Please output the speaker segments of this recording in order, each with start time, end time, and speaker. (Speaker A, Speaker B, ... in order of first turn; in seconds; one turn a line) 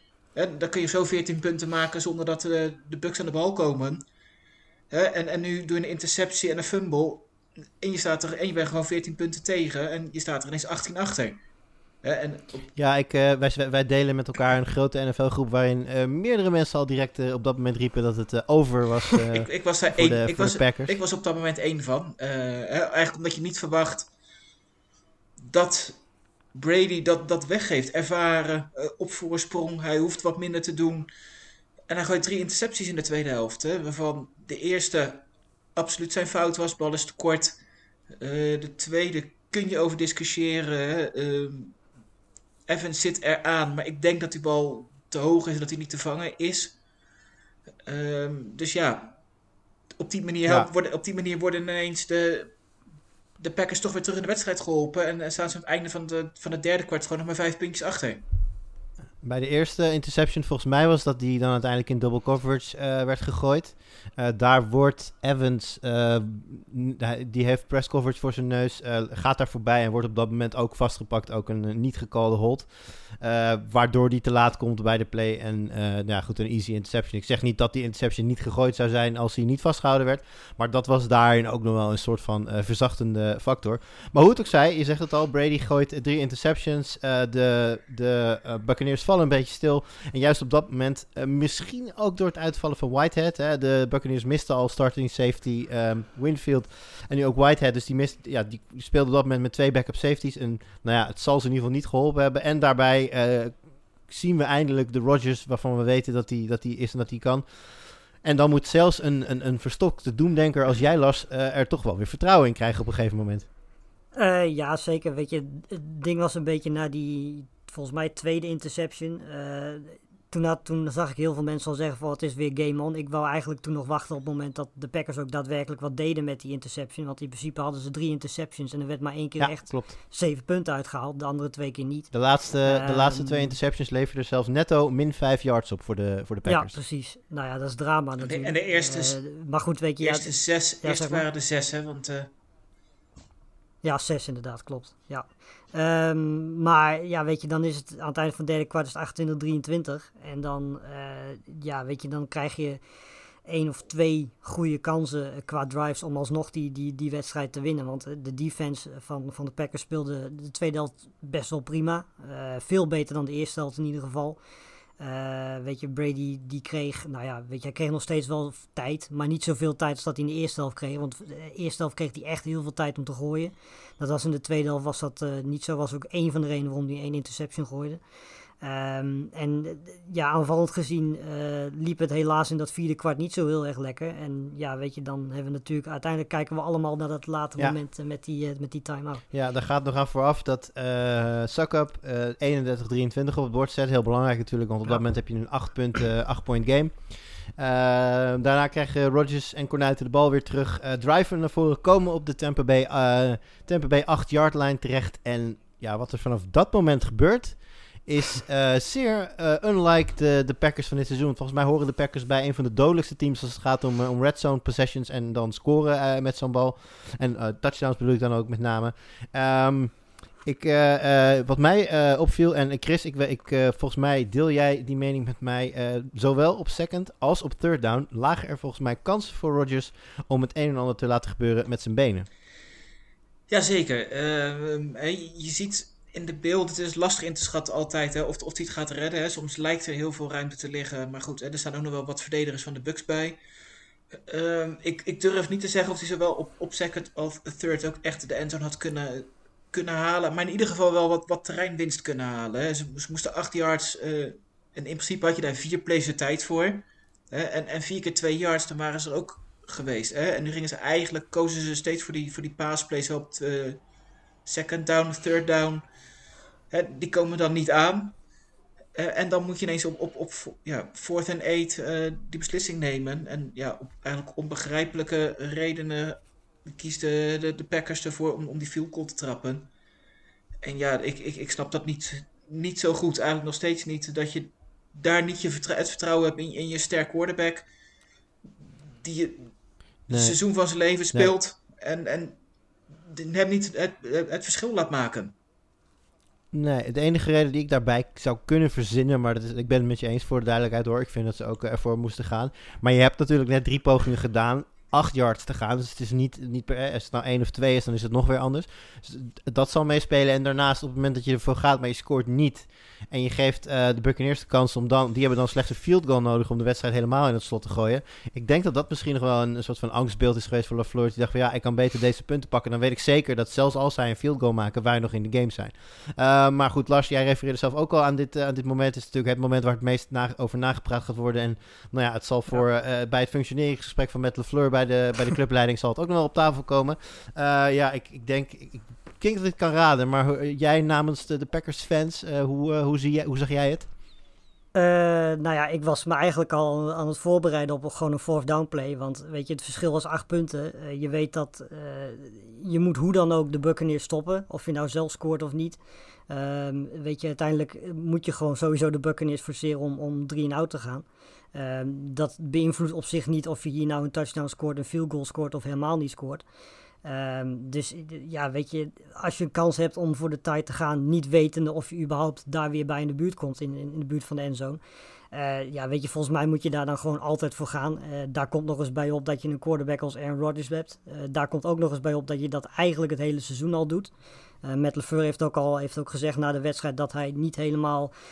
Speaker A: 0.3-4.0
Speaker A: 4.9-7.3
Speaker A: 7.8-11.4
Speaker A: 12.0-12.7
Speaker B: 12.8-20.9
Speaker A: 19.3-24.1
Speaker A: 25.4-26.0
Speaker A: 26.5-31.1
Speaker A: 31.9-37.6
Speaker A: 38.1-41.8
Speaker A: 42.7-46.8
Speaker A: 47.8-49.2
Speaker A: 50.0-52.6
Speaker A: 53.4-58.2
Speaker B: 59.2-107.4
Speaker B: 108.2-113.5
Speaker C: 114.1-133.6
Speaker B: 129.4-129.9
Speaker B: 132.1-136.7
Speaker C: 136.4-141.2
Speaker A: 138.2-139.2
Speaker A: 140.0-142.3
Speaker C: 143.8-152.8
Speaker C: 153.4-164.4
Speaker C: 165.0-178.0
Speaker C: 178.6-189.2
Speaker B: 189.3-232.3
Speaker A: 233.5-243.4
Speaker A: 244.1-263.8
Speaker A: 264.4-265.8
Speaker A: 266.7-268.1
Speaker A: 268.9-279.7
Speaker A: 280.6-287.7
Speaker A: 289.0-292.4
Speaker B: 290.1-290.4
Speaker A: 293.1-295.3
Speaker B: 296.5-343.9
Speaker C: 344.7-366.4
Speaker C: 367.0-374.8
Speaker C: 375.3-384.1
Speaker C: 384.6-388.1